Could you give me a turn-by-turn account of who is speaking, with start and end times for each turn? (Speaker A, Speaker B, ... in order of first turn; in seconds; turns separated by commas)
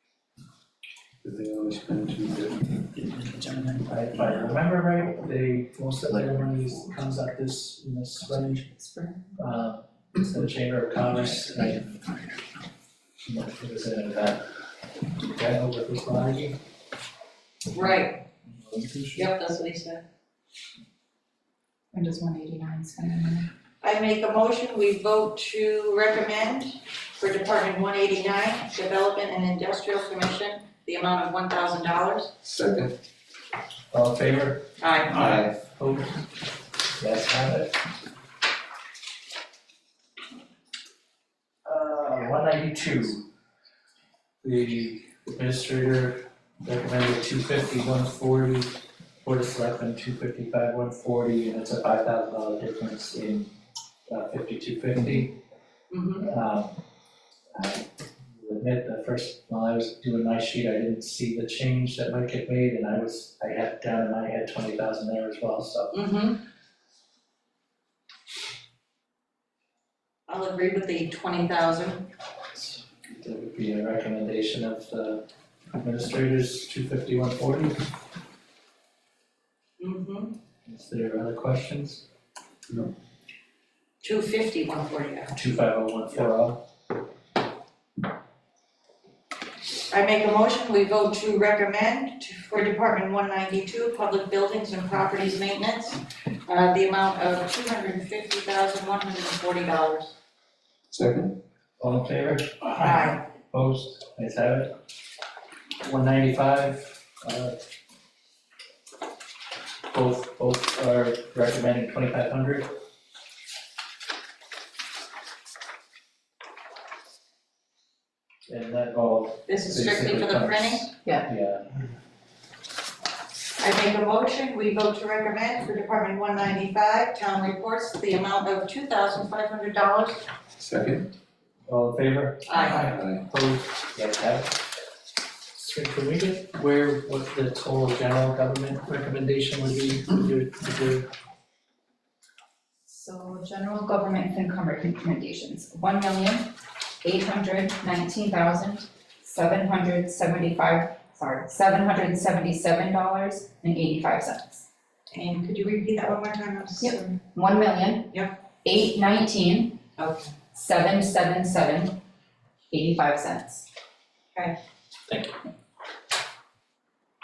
Speaker A: 1.2-2.9, Speaker B: 3.7-8.7, Speaker C: 8.6-9.3, Speaker B: 9.4-12.2, Speaker B: 13.2-14.4, Speaker B: 15.2-16.6, Speaker D: 17.7-18.2, Speaker B: 18.5-19.2, Speaker D: 19.1-20.0, Speaker C: 21.9-23.5, Speaker D: 23.8-32.3, Speaker A: 32.4-32.9, Speaker B: 33.9-36.2, Speaker D: 34.8-35.2, Speaker A: 35.2-35.5, Speaker B: 37.0-37.8, Speaker B: 41.6-43.2, Speaker B: 44.4-53.5, Speaker B: 54.1-55.4, Speaker D: 55.9-56.3, Speaker B: 56.2-56.8, Speaker B: 57.5-65.9, Speaker D: 65.9-66.4, Speaker D: 70.3-72.1, Speaker B: 72.5-75.2, Speaker B: 75.8-77.8, Speaker D: 79.8-80.3, Speaker B: 80.6-82.0, Speaker D: 84.0-85.3, Speaker B: 85.3-86.6, Speaker D: 89.9-100.1, Speaker A: 100.9-101.3, Speaker B: 101.8-104.7, Speaker D: 102.8-103.2, Speaker B: 105.8-107.5, Speaker B: 109.9-112.7, Speaker B: 118.5-121.7, Speaker D: 119.5-120.9, Speaker D: 123.6-130.2, Speaker A: 130.6-131.1, Speaker B: 131.7-134.5, Speaker D: 132.4-132.9, Speaker A: 132.8-133.2, Speaker B: 135.5-141.1, Speaker C: 142.9-154.7, Speaker D: 155.1-157.2, Speaker C: 156.8-159.8, Speaker D: 160.0-160.3, Speaker C: 160.5-162.0, Speaker C: 162.7-163.7, Speaker B: 165.1-165.3